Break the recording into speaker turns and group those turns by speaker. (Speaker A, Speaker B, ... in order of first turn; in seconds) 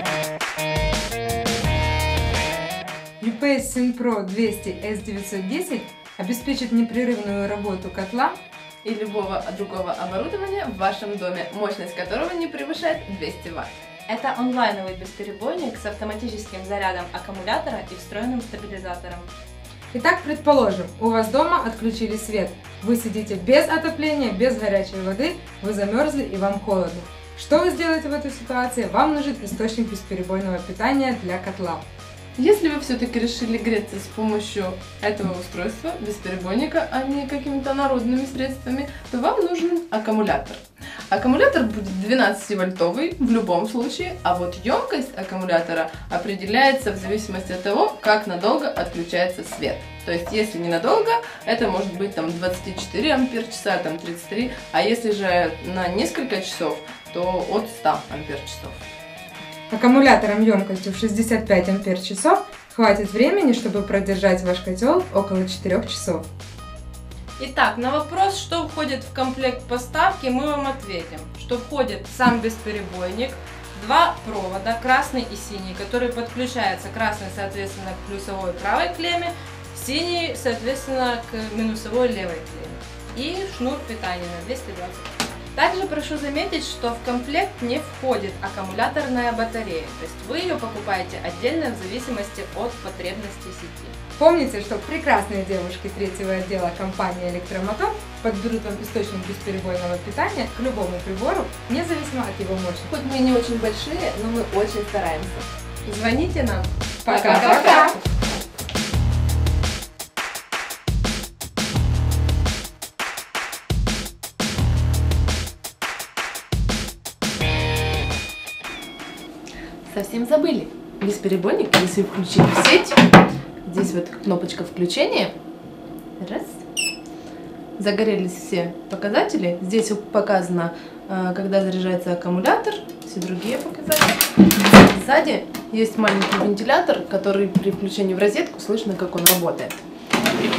Speaker A: 3.2-8.4, 19.9-31.8, 59.7-66.2, 94.2-102.9, 107.0-108.0
Speaker B: 8.8-14.1, 16.4-19.2, 32.4-58.8, 85.5-90.9, 91.5-91.9, 102.9-108.0, 119.9-123.0, 123.6-125.3, 126.2-126.6, 127.8-134.2, 134.8-139.8
Speaker C: 14.1-19.2, 67.4-85.1, 90.0-93.9, 107.2-107.9